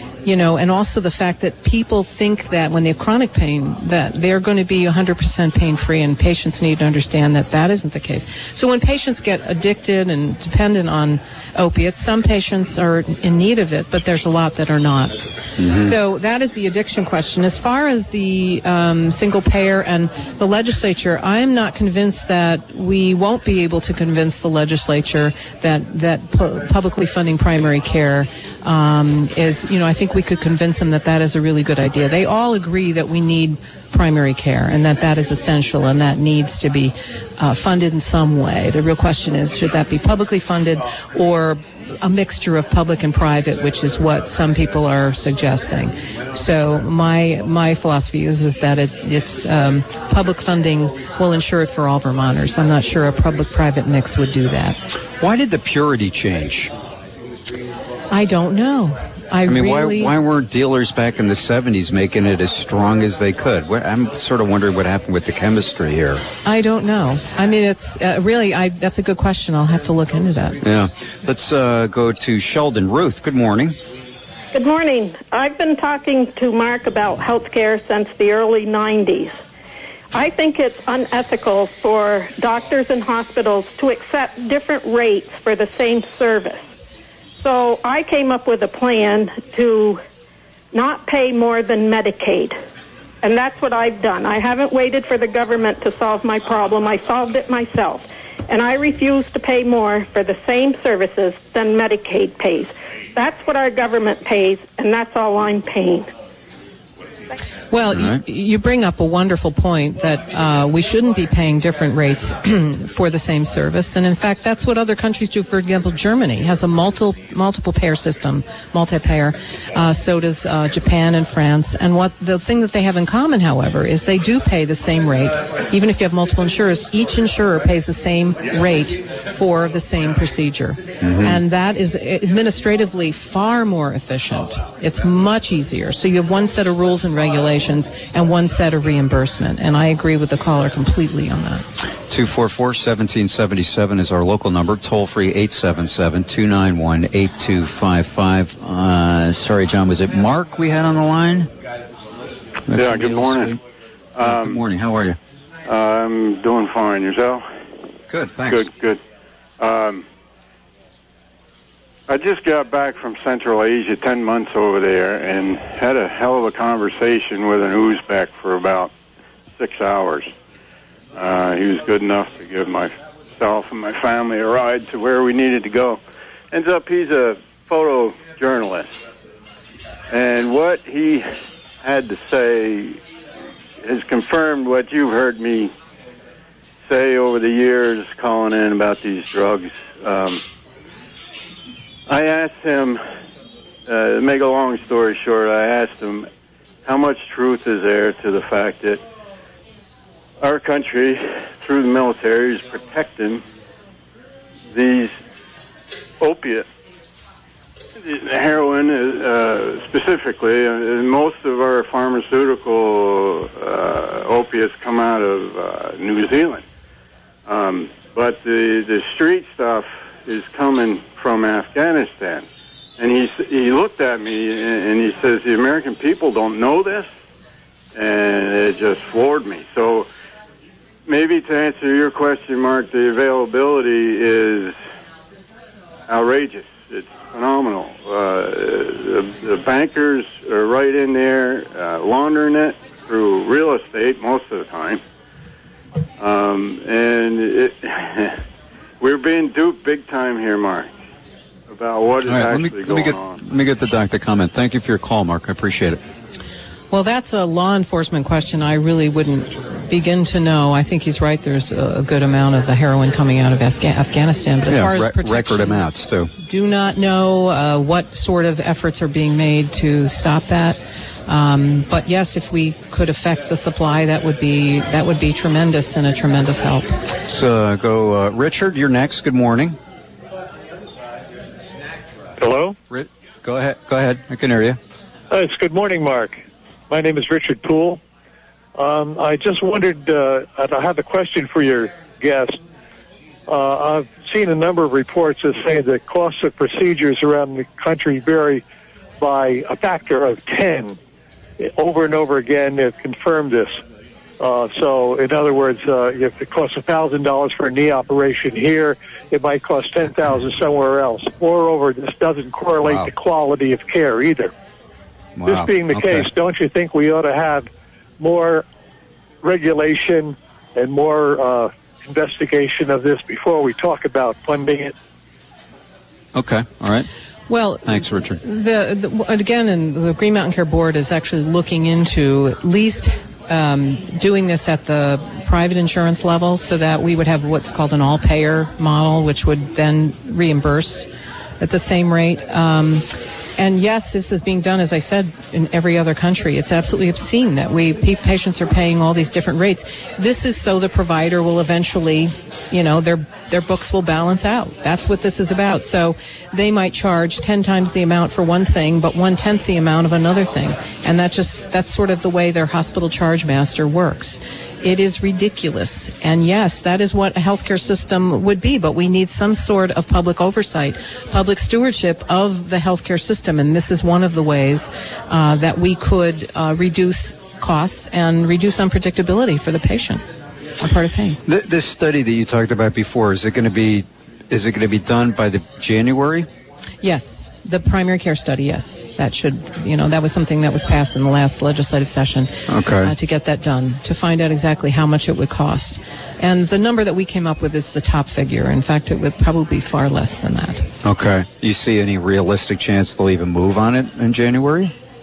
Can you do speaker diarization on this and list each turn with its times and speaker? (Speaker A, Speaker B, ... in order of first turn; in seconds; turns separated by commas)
Speaker A: 0.2-54.8, Speaker B: 15.6-15.9, Speaker B: 55.2-56.7, Speaker A: 58.1-60.1, Speaker B: 59.5-66.2, Speaker A: 66.4-70.6, Speaker B: 70.6-73.8, Speaker C: 74.5-79.4, Speaker C: 80.1-86.8, Speaker C: 87.4-90.0, Speaker C: 90.7-92.6, Speaker C: 93.2-106.1, Speaker A: 107.7-141.6, Speaker B: 107.9-108.2, Speaker B: 131.0-131.4, Speaker B: 142.1-151.5, Speaker B: 152.7-153.6, Speaker D: 152.7-153.6, Speaker D: 154.2-154.6, Speaker B: 154.2-155.2, Speaker D: 155.7-157.4, Speaker B: 158.1-158.7, Speaker D: 158.5-159.0, Speaker D: 159.6-160.0, Speaker D: 162.1-168.9, Speaker D: 169.6-170.3, Speaker D: 171.1-176.0, Speaker D: 176.5-179.0, Speaker D: 180.1-181.3, Speaker D: 181.8-183.0, Speaker D: 183.8-185.7, Speaker D: 186.9-190.4, Speaker D: 192.1-193.0, Speaker D: 193.9-196.3, Speaker D: 196.8-199.0, Speaker D: 200.4-203.4, Speaker D: 204.7-205.2, Speaker D: 206.2-206.7, Speaker D: 208.0-216.6, Speaker D: 217.5-222.5, Speaker D: 223.0-227.1, Speaker D: 227.9-230.1, Speaker D: 231.1-234.8, Speaker D: 236.1-245.0, Speaker D: 246.2-248.4, Speaker D: 249.0-250.9, Speaker D: 251.7-253.4, Speaker B: 252.2-256.0, Speaker A: 256.9-265.9, Speaker B: 264.7-266.3, Speaker A: 266.4-276.9, Speaker B: 277.3-279.8, Speaker E: 282.4-282.7, Speaker B: 282.9-284.8, Speaker E: 285.4-286.4, Speaker E: 286.9-288.0, Speaker E: 288.8-292.5, Speaker E: 293.5-298.6, Speaker E: 299.2-300.9, Speaker E: 301.8-303.7, Speaker E: 304.4-314.5, Speaker B: 312.8-313.1, Speaker B: 315.4-316.3, Speaker E: 315.5-317.7, Speaker E: 318.2-318.6, Speaker E: 319.4-324.8, Speaker B: 326.3-327.1, Speaker A: 327.5-341.1, Speaker B: 327.9-328.4, Speaker A: 341.6-380.2, Speaker A: 380.8-381.4, Speaker B: 381.5-386.5, Speaker A: 387.0-400.9, Speaker B: 392.7-393.1, Speaker B: 401.0-404.9